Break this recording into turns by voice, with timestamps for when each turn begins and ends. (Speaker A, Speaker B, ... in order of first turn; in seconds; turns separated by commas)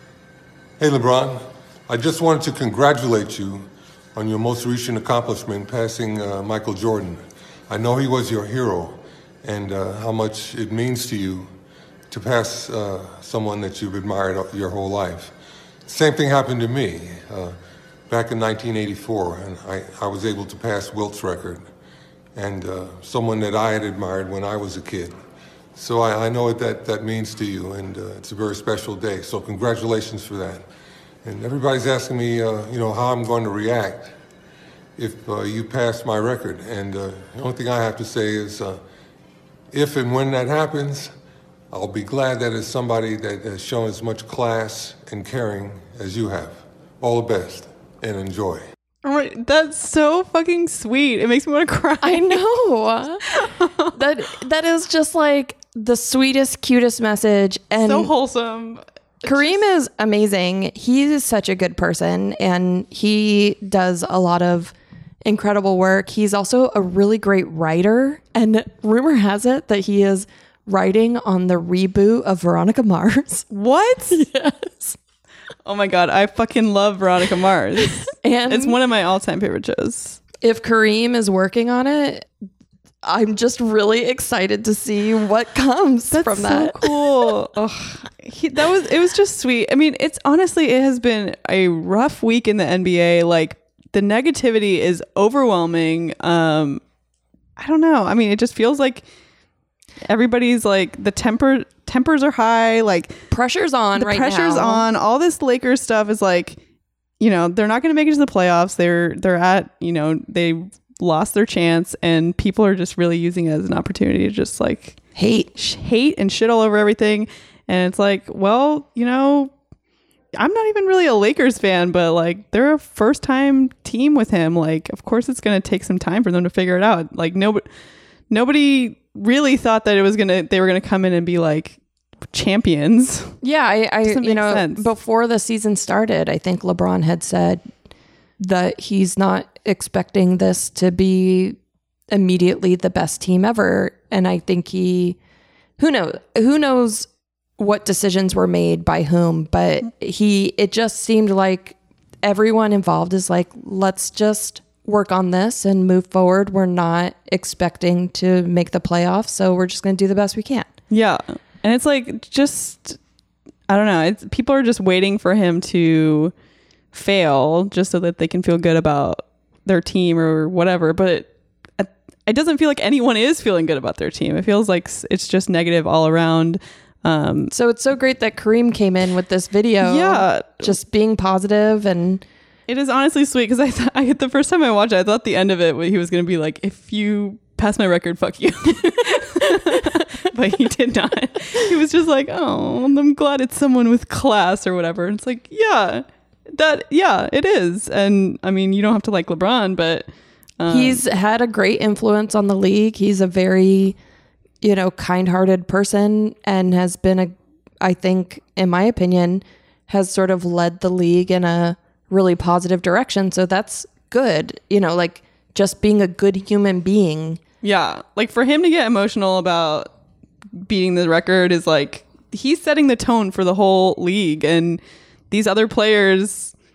Speaker A: 0.8-11.5, Speaker A: 12.1-15.3, Speaker A: 15.8-17.6, Speaker A: 18.1-21.6, Speaker A: 22.3-25.1, Speaker A: 25.8-30.6, Speaker A: 31.2-34.1, Speaker A: 35.0-38.8, Speaker A: 39.7-41.1, Speaker A: 41.7-48.6, Speaker B: 49.0-52.4, Speaker C: 52.0-53.3, Speaker B: 53.3-53.9, Speaker C: 53.9-58.1, Speaker B: 57.8-59.6, Speaker C: 59.2-64.7, Speaker C: 65.2-73.5, Speaker B: 73.5-74.2, Speaker C: 74.1-75.0, Speaker B: 75.6-80.2, Speaker C: 78.1-78.8, Speaker C: 80.4-82.3, Speaker C: 83.0-86.8, Speaker B: 86.1-96.8, Speaker B: 97.6-99.0, Speaker B: 100.0-103.2, Speaker C: 103.3-104.9, Speaker B: 104.0-106.6, Speaker B: 107.2-115.0, Speaker C: 115.2-115.5, Speaker B: 115.5-119.5, Speaker B: 120.3-127.7, Speaker B: 128.3-133.4, Speaker C: 133.4-137.6, Speaker B: 134.0-134.9, Speaker C: 138.4-141.6, Speaker C: 142.1-145.2, Speaker C: 145.8-160.7, Speaker B: 160.9-163.0, Speaker B: 163.7-166.3, Speaker B: 166.9-177.5, Speaker C: 177.5-182.2, Speaker B: 179.8-180.7, Speaker B: 182.7-200.1, Speaker B: 200.6-201.0, Speaker C: 200.7-204.0, Speaker C: 204.6-217.4, Speaker B: 217.6-219.9, Speaker B: 220.5-226.5